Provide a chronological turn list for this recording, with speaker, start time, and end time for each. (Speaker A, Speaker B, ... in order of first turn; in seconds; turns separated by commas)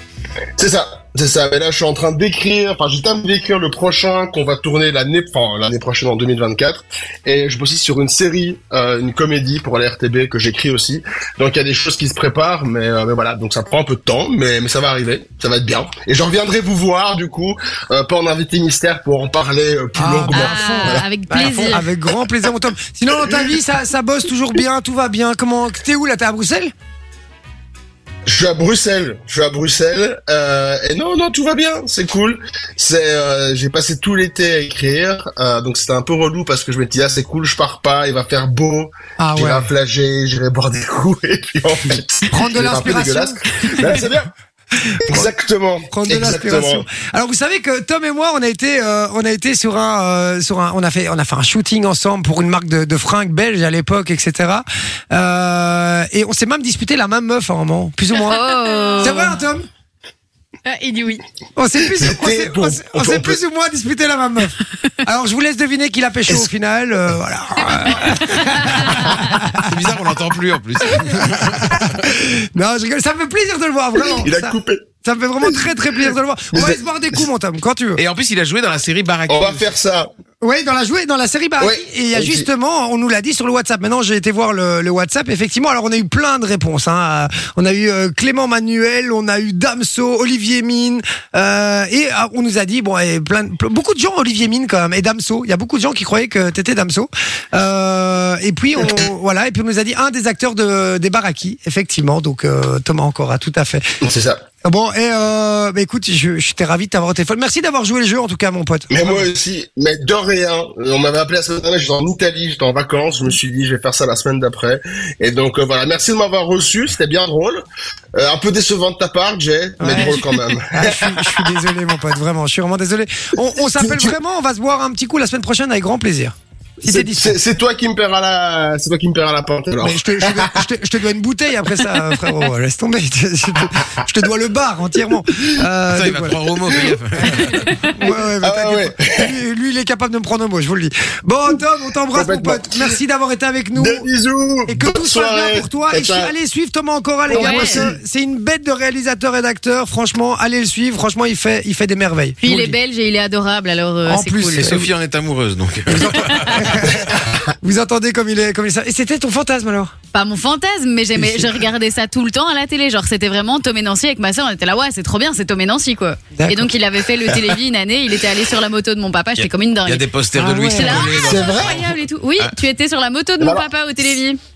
Speaker A: 0.6-21.9, Speaker B: 20.0-26.7, Speaker C: 20.3-21.9, Speaker A: 28.3-44.3, Speaker B: 39.2-39.7, Speaker B: 42.3-44.0, Speaker A: 45.0-46.9, Speaker B: 45.9-58.4, Speaker D: 58.2-59.4, Speaker C: 58.2-59.3, Speaker B: 59.0-59.7, Speaker D: 60.6-61.2, Speaker B: 61.6-69.7, Speaker A: 62.0-63.4, Speaker D: 67.6-68.1, Speaker E: 69.6-71.8, Speaker B: 70.9-78.0, Speaker A: 74.2-74.8, Speaker A: 76.5-77.2, Speaker E: 78.0-79.6, Speaker A: 79.3-80.1, Speaker B: 80.4-103.8, Speaker A: 81.6-82.5, Speaker A: 104.0-104.4, Speaker B: 104.7-109.3, Speaker A: 108.9-117.6, Speaker A: 118.2-121.5, Speaker B: 119.8-127.4, Speaker A: 123.7-124.2, Speaker A: 126.8-130.7, Speaker B: 129.8-136.4, Speaker E: 135.9-137.7, Speaker B: 137.8-144.1, Speaker A: 138.1-139.3, Speaker A: 142.1-142.9, Speaker A: 143.8-146.3, Speaker B: 144.7-152.8, Speaker C: 147.3-147.8, Speaker A: 147.3-148.0, Speaker C: 152.4-154.8, Speaker B: 154.1-154.9, Speaker E: 154.6-156.7, Speaker B: 155.9-159.9, Speaker C: 160.1-170.1, Speaker B: 166.3-166.7, Speaker E: 169.4-172.5, Speaker B: 170.3-171.1, Speaker C: 170.8-174.4, Speaker A: 171.1-171.8, Speaker A: 173.4-173.7